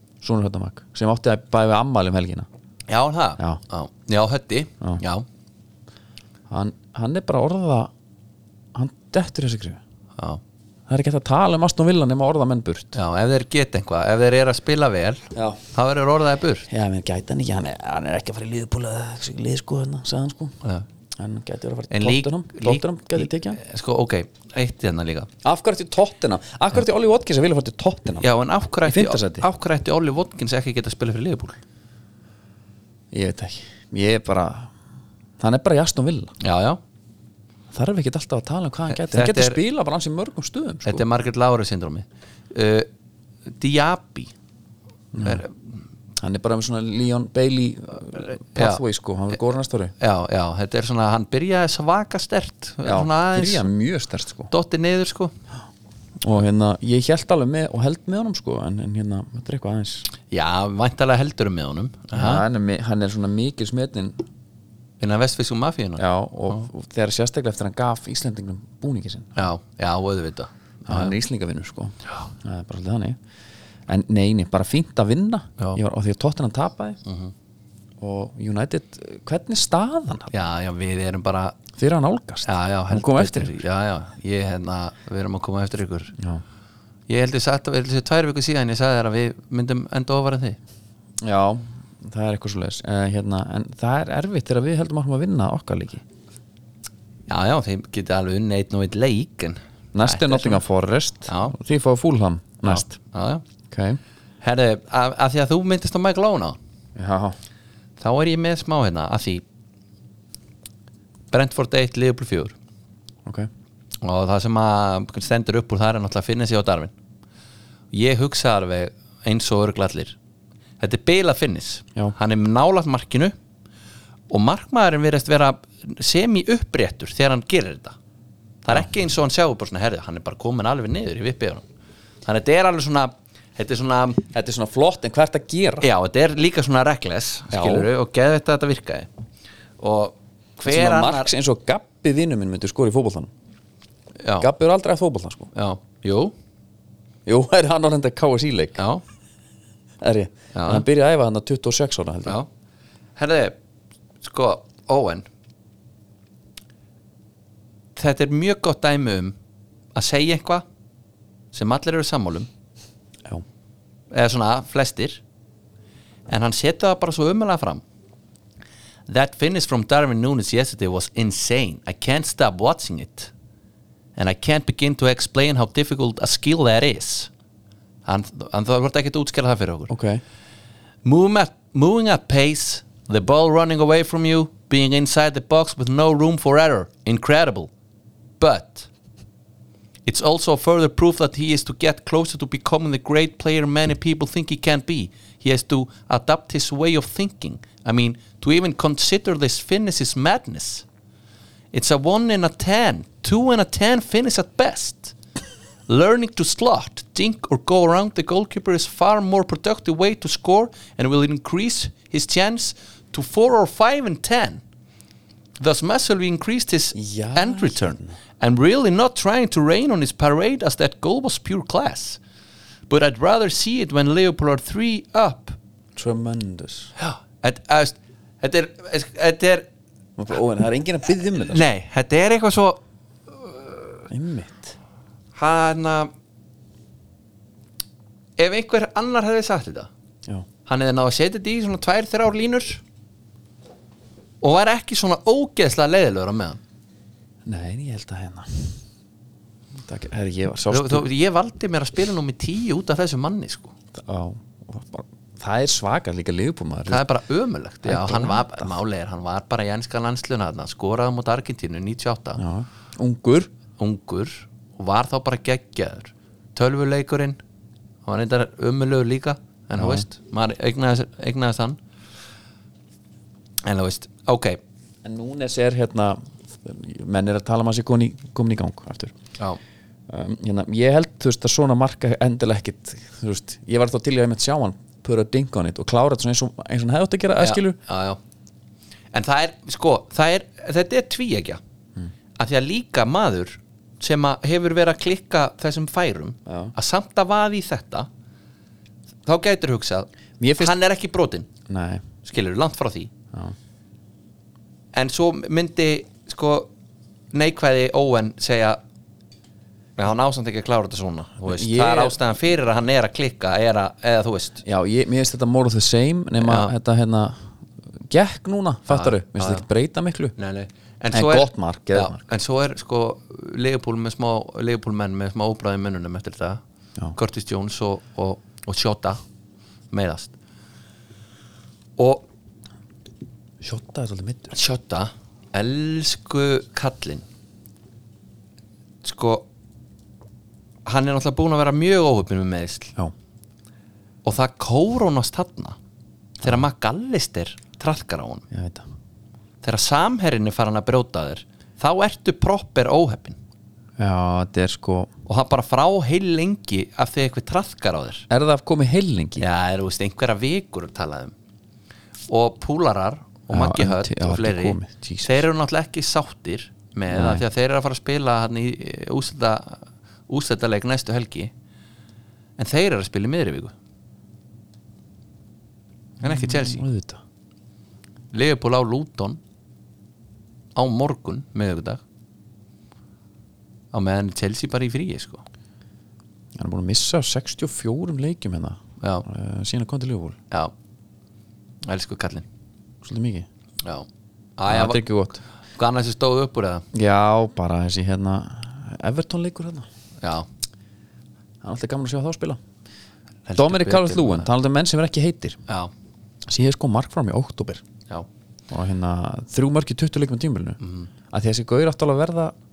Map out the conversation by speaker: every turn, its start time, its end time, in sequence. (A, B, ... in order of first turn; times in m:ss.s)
0:00.2-0:02.5 A
0:02.9-0:05.3 B
0:06.5-0:07.9 A
0:08.7-0:09.8 A
0:10.9-0:13.0 A
0:13.0-0:16.7 B
0:15.3-0:15.6 A
0:16.7-0:20.6 A
0:21.2-0:23.6 A
0:21.9-0:25.3 B
0:25.4-0:28.3 A
0:28.2-0:31.6 B
0:28.8-0:29.5 A
0:33.1-0:34.7 A
0:35.4-0:36.3 A
0:36.4-0:36.8 B
0:37.7-0:41.0 A
0:38.9-0:39.6 B
0:40.8-0:42.9 B
0:43.6-0:44.3 B
0:45.1-0:45.4 A
0:45.2-0:45.6 B
0:46.2-0:49.9 A
0:48.5-0:48.8 B
0:50.0-0:53.7 B
0:52.8-0:54.5 A
0:54.5-0:55.3 B
0:56.2-1:00.1 A
1:00.3-1:02.4 B
1:02.1-1:04.2 A
1:05.0-1:06.7 B
1:06.0-1:09.4 A
1:09.4-1:11.2 B
1:10.9-1:13.2 A
1:13.9-1:17.0 A
1:17.0-1:17.3 B
1:18.0-1:20.3 A
1:20.3-1:21.6 B
1:21.8-1:23.6 A
1:22.4-1:26.2 B
1:26.2-1:26.4 A
1:27.1-1:30.6 B
1:31.2-1:36.0 A
1:37.3-1:40.6 B
1:39.9-1:42.9 A
1:41.3-1:41.5 B
1:42.6-1:43.4 B
1:43.7-1:44.0 A
1:44.4-1:46.6 B
1:47.0-1:47.4 A
1:48.0-1:49.4 B
1:51.3-1:52.6 B
1:54.0-1:56.9 B
1:57.9-2:00.2 B
2:00.8-2:03.4 B
2:04.3-2:08.0 B
2:08.6-2:11.6 B
2:12.2-2:14.2 B
2:14.2-2:15.9 A
2:15.8-2:19.1 B
2:17.5-2:17.9 A
2:19.8-2:21.3 B
2:20.7-2:23.3 A
2:24.2-2:24.5 B
2:24.4-2:25.5 A
2:25.5-2:26.3 B
2:27.3-2:28.8 A
2:28.8-2:29.0 B
2:30.0-2:32.4 A
2:30.5-2:30.8 B
2:33.2-2:33.6 B
2:34.2-2:35.3 B
2:38.0-2:39.4 B
2:40.0-2:40.6 B
2:41.5-2:42.5 B
2:44.1-2:45.2 B
2:46.3-2:47.8 B
2:49.1-2:53.3 B
2:54.2-2:57.3 B
2:58.0-2:59.9 B
2:59.9-3:00.2 A
3:01.0-3:07.7 B
3:08.4-3:08.9 B
3:10.1-3:20.8 B
3:21.7-3:25.2 B
3:25.9-3:34.6 B
3:35.6-3:42.2 B
3:37.0-3:38.2 A
3:42.9-3:45.6 B
3:46.0-3:46.9 A
3:47.0-3:49.7 B
3:50.2-3:51.7 A
3:51.3-3:53.9 B
3:54.1-3:54.8 A
3:55.4-3:56.1 B
3:58.4-3:59.9 B
4:00.7-4:02.8 B
4:04.4-4:06.6 B
4:07.5-4:08.8 A
4:09.8-4:11.1 A
4:10.7-4:13.7 B
4:13.9-4:17.0 A
4:16.9-4:22.4 B
4:17.8-4:18.8 A
4:22.4-4:23.5 A
4:23.8-4:27.4 B
4:28.0-4:31.8 B
4:29.8-4:30.1 A
4:33.6-4:34.6 B
4:35.0-4:39.1 A
4:40.1-4:47.8 A
4:47.4-4:48.2 B
4:49.1-4:51.6 B
4:52.4-4:58.1 B
4:56.5-4:56.7 A
4:59.3-5:01.5 B
5:00.4-5:00.8 A
5:01.7-5:02.0 A
5:02.2-5:03.1 B
5:04.9-5:06.7 B
5:07.3-5:08.8 B
5:10.0-5:14.6 B
5:11.4-5:12.2 A
5:14.6-5:20.3 A
5:16.4-5:16.7 B
5:18.9-5:19.6 B
5:20.4-5:26.6 B
5:21.1-5:22.2 A
5:27.1-5:29.2 B
5:29.9-5:30.3 B
5:32.0-5:32.3 B
5:33.6-5:34.6 A
5:34.5-5:37.2 B
5:39.0-5:39.5 B
5:40.8-5:42.9 B
5:44.2-5:45.8 B
5:46.4-5:48.4 B
5:48.5-5:48.9 A
5:49.6-5:53.4 B
5:54.0-5:55.1 A
5:55.3-5:58.3 B
5:58.3-5:59.4 A
5:59.4-6:01.3 B
6:02.3-6:11.5 B
6:03.5-6:05.5 A
6:07.1-6:07.4 A
6:12.6-6:13.7 B
6:16.2-6:17.2 A
6:16.2-6:16.8 B
6:18.3-6:19.4 B
6:20.8-6:22.0 B
6:23.9-6:25.4 B
6:26.6-6:30.4 A
6:29.0-6:29.3 B
6:31.8-6:32.5 B
6:33.0-6:33.5 A
6:33.8-6:35.0 B
6:34.7-6:35.4 A
6:35.7-6:36.8 B
6:36.9-6:39.9 A
6:40.2-6:40.5 B
6:41.6-6:42.6 A
6:43.5-6:44.5 B
6:43.6-6:45.6 A
6:46.5-6:47.8 A
6:48.7-6:50.8 A
6:50.8-6:51.1 B
6:51.3-6:52.5 A